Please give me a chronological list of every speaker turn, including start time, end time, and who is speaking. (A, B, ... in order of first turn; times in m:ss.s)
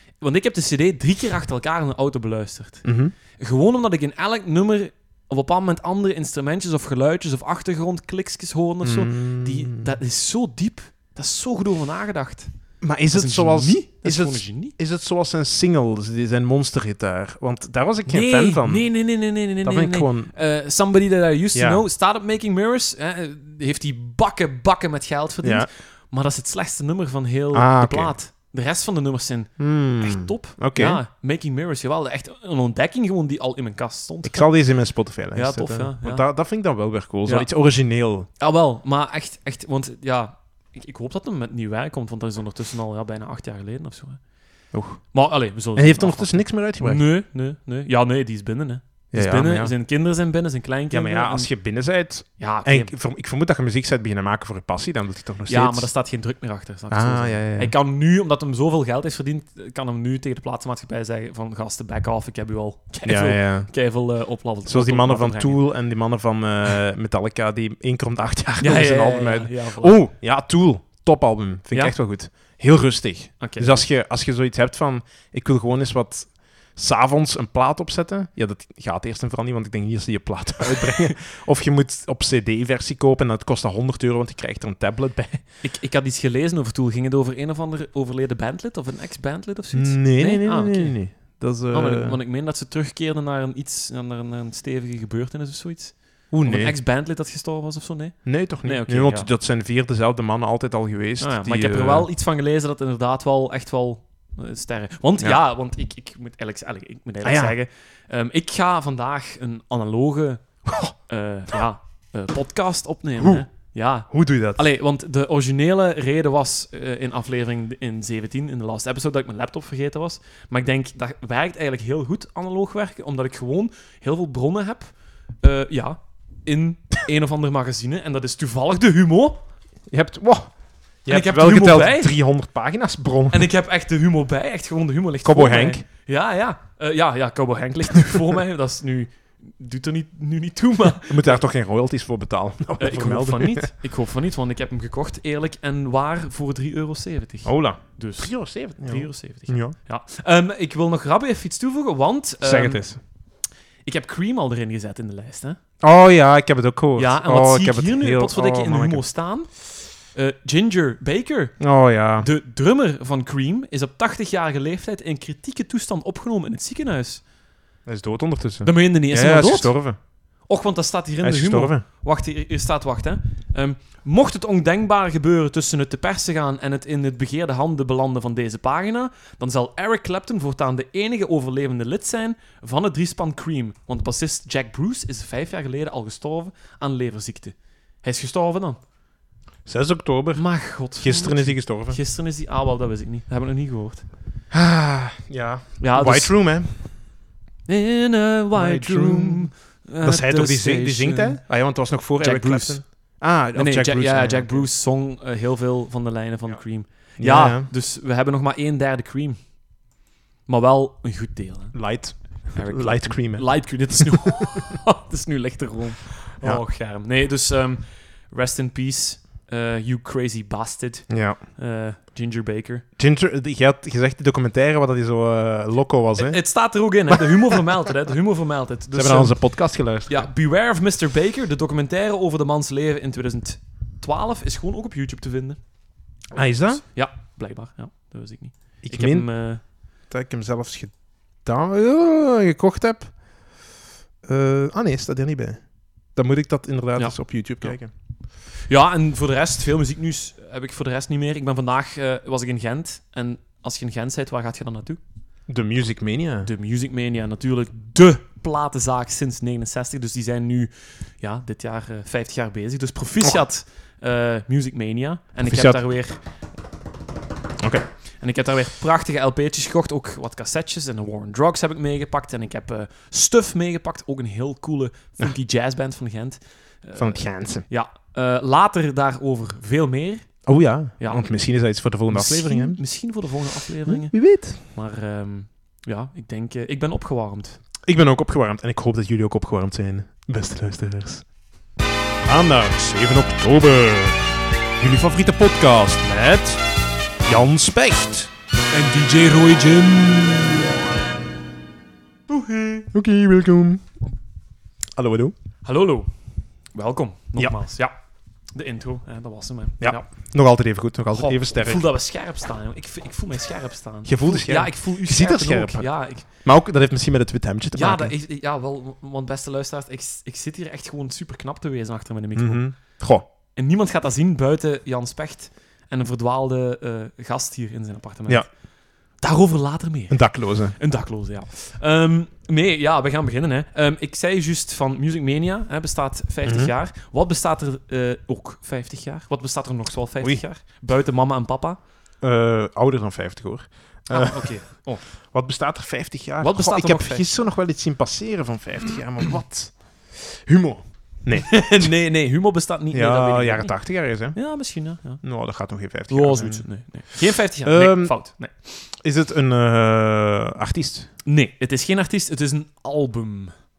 0:00.2-0:12.5 A
0:02.8-0:03.1 B
0:08.8-0:09.9 B
0:12.8-0:19.0 B
0:13.1-0:14.8 A
0:18.1-0:34.6 A
0:19.6-0:20.3 B
0:21.5-0:21.8 B
0:25.4-0:25.7 B
0:27.5-0:28.2 B
0:29.6-0:31.0 B
0:34.2-0:38.3 B
0:35.3-0:36.3 A
0:37.2-0:37.5 A
0:38.4-0:44.2 A
0:44.7-0:45.1 B
0:45.1-0:51.5 A
0:45.8-0:47.0 B
0:49.1-0:49.7 B
0:50.9-0:55.9 B
0:52.4-0:52.9 A
0:55.5-1:05.6 A
0:56.9-0:57.7 B
1:03.0-1:03.9 B
1:04.6-1:25.4 B
1:08.6-1:10.0 A
1:13.4-1:13.9 A
1:20.8-1:21.1 A
1:25.6-1:39.3 A
1:29.7-1:32.2 B
1:36.3-1:36.8 B
1:38.2-1:42.1 B
1:41.2-2:09.4 A
1:47.2-1:47.6 B
1:53.2-1:53.5 B
1:54.1-1:54.6 B
2:09.9-2:13.5 B
2:11.1-2:12.1 A
2:13.3-2:21.4 A
2:15.2-2:15.8 B
2:21.1-2:23.7 B
2:22.8-2:32.9 A
2:27.4-2:29.8 B
2:32.4-2:33.0 B
2:33.8-2:35.6 A
2:35.8-2:39.1 B
2:37.0-2:47.2 A
2:41.6-2:42.3 B
2:47.9-2:50.0 B
2:48.6-2:49.8 A
2:50.5-3:08.8 A
2:51.2-2:51.8 B
3:09.7-3:12.0 B
3:10.4-3:14.1 A
3:14.5-3:16.9 B
3:15.8-3:16.4 A
3:17.7-3:21.4 A
3:18.5-3:24.7 B
3:22.2-3:29.4 A
3:27.2-3:27.7 B
3:30.5-3:31.8 A
3:31.7-3:34.2 B
3:32.5-3:42.8 A
3:41.1-3:41.4 B
3:43.0-3:46.4 B
3:46.2-3:49.5 A
3:47.1-3:47.6 B
3:48.9-3:50.3 B
3:50.1-3:55.6 A
3:56.3-3:56.8 B
3:56.4-3:59.6 A
3:58.8-3:59.4 B
4:00.1-4:03.4 B
4:04.2-4:05.6 B
4:06.1-4:07.9 B
4:07.0-4:07.8 A
4:08.7-4:15.0 A
4:15.5-4:16.5 B
4:16.4-4:26.2 A
4:25.4-4:25.8 B
4:27.6-4:27.8 B
4:28.2-4:40.4 A
4:37.0-4:37.7 B
4:40.5-4:42.8 B
4:41.0-4:41.3 A
4:42.1-4:47.6 A
4:43.9-4:44.6 B
4:47.9-4:51.3 B
4:52.2-4:54.3 B
4:54.8-4:56.6 B
4:57.2-4:58.3 B
4:58.7-5:00.8 A
5:02.3-5:02.9 A
5:02.9-5:03.9 B
5:05.0-5:05.4 B
5:05.6-5:06.1 A
5:06.7-5:07.9 A
5:08.6-5:10.1 A
5:09.8-5:11.9 B
5:11.1-5:16.3 A
5:14.0-5:18.2 B
5:17.7-5:23.0 A
5:22.4-5:23.2 B
5:23.6-5:28.6 A
5:29.2-5:41.8 A
5:30.1-5:30.8 B
5:36.4-5:36.7 B
5:42.2-5:51.9 B
5:44.1-5:45.0 A
5:46.4-5:47.3 A
5:51.4-5:55.2 A
5:52.9-5:54.6 B
5:55.2-5:56.8 B
5:56.1-5:58.5 A
5:57.6-6:01.1 B
6:01.3-6:03.6 A